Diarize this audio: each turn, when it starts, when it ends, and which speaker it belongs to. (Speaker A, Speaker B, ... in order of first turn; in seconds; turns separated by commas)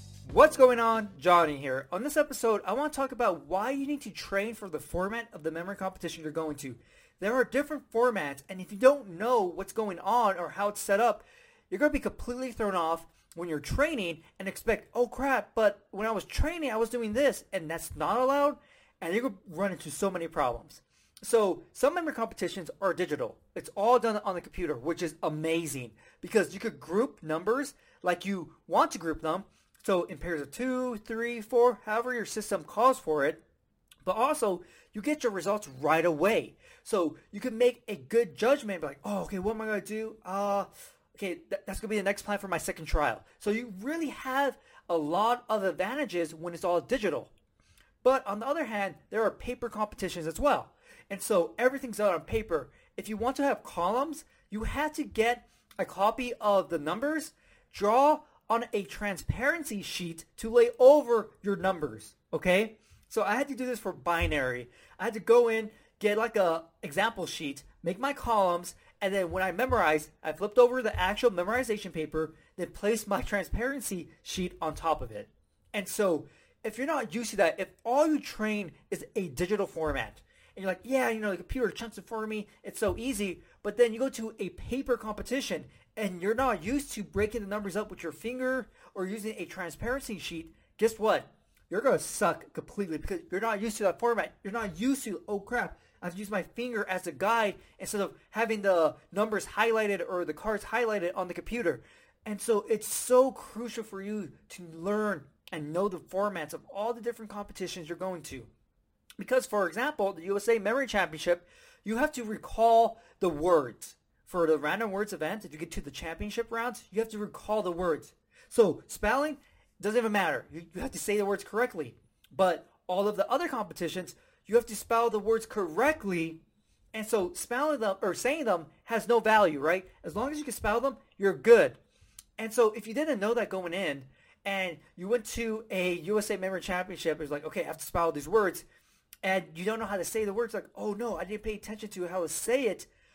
Speaker A: 0.2-33.4, Speaker A: 34.0-47.3, Speaker A: 48.0-108.5, Speaker A: 109.2-126.4, Speaker A: 126.9-131.8, Speaker A: 132.4-138.6, Speaker A: 139.2-142.9